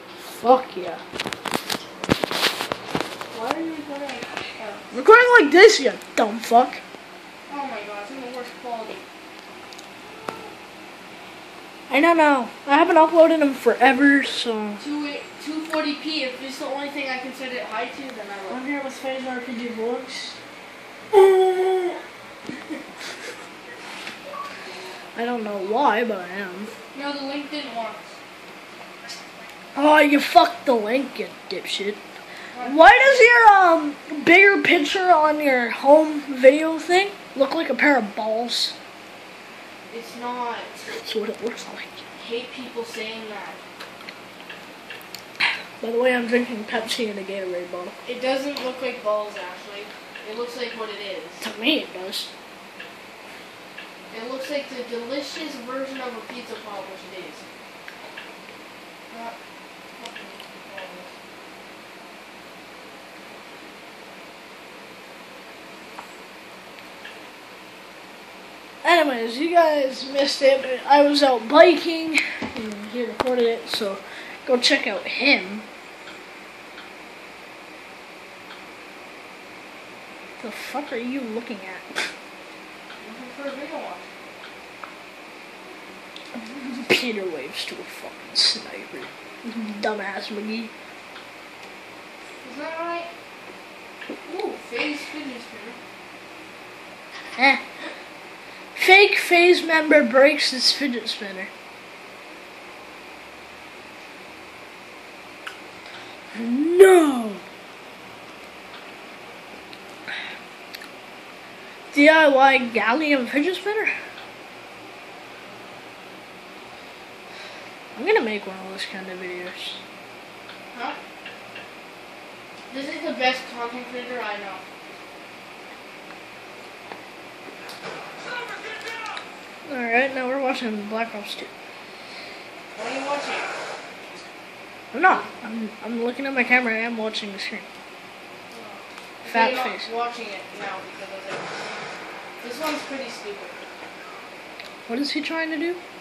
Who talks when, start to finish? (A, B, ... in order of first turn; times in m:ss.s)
0:00.4-0:01.0 A
0:03.3-0:04.9 B
0:04.9-0:06.8 A
0:07.5-0:09.0 B
0:11.9-0:14.8 A
0:14.8-0:18.6 B
0:18.5-0:20.4 A
0:25.2-0:26.7 A
0:26.9-0:28.1 B
0:29.8-0:32.0 A
0:32.5-0:33.3 B
0:32.6-0:38.8 A
0:39.9-0:40.8 B
0:41.0-0:42.0 A
0:42.2-0:43.6 B
0:45.8-0:48.0 A
0:48.0-0:51.4 B
0:51.4-0:52.3 A
0:54.1-0:57.4 B
0:59.1-0:59.4 B
1:00.0-1:01.1 B
1:08.8-1:15.6 A
1:20.4-1:22.1 A
1:23.0-1:24.1 B
1:26.5-1:30.7 A
1:32.4-1:33.1 B
1:34.2-1:35.8 B
1:37.4-1:37.6 A
1:38.8-1:41.5 A
1:46.3-1:47.4 A
1:51.9-1:53.9 A
1:58.0-1:59.8 A
2:00.7-2:01.0 B
2:02.7-2:04.6 B
2:09.7-2:11.5 A
2:12.7-2:13.5 B
2:14.9-2:17.7 A
2:18.5-2:21.8 B
2:19.3-2:19.9 A
2:22.4-2:23.6 B
2:24.9-2:25.8 A